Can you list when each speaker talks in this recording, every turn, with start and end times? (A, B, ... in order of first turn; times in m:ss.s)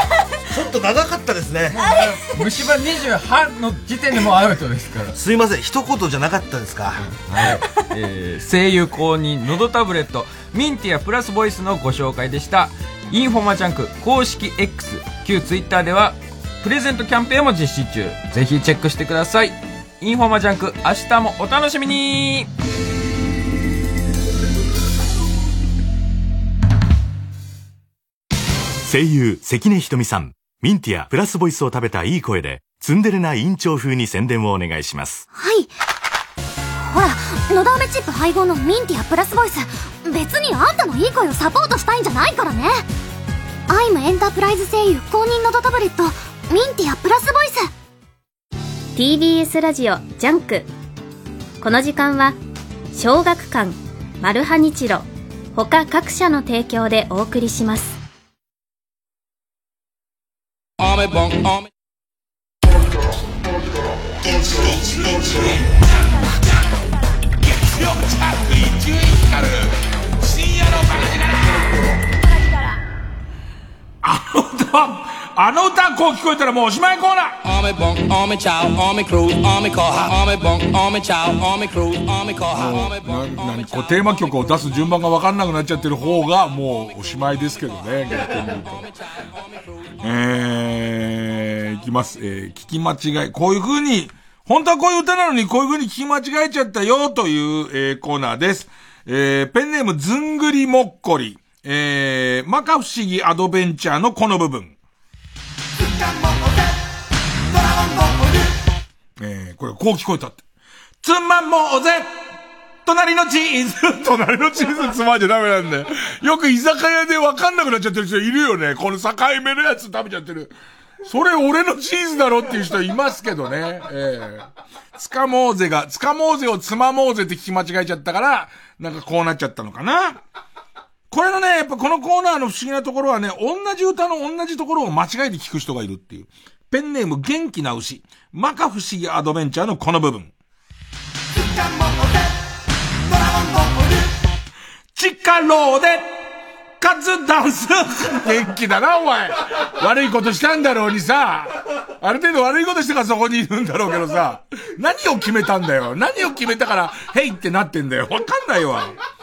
0:00.5-0:01.8 A
0:01.8-0:05.1 B
0:05.1-0:07.6 A
0:07.3-0:22.5 B
0:28.8-0:35.2 C
0:35.3-0:35.7 D
0:36.7-0:42.8 D
0:43.7-0:47.7 D
0:49.0-0:50.7 E
0:51.6-0:52.4 E
0:52.9-0:58.0 E
1:00.8-1:01.7 F
1:04.3-1:05.7 G
1:07.4-1:11.7 G
1:14.0-1:17.4 G
1:17.4-1:24.1 F
1:22.5-1:28.9 G
1:30.0-1:44.8 G
1:49.2-1:50.4 G
1:51.0-1:52.1 G
1:52.8-2:00.5 G
2:01.0-2:10.2 G
2:11.1-2:20.3 G
2:24.9-2:26.2 G
2:26.8-2:39.0 G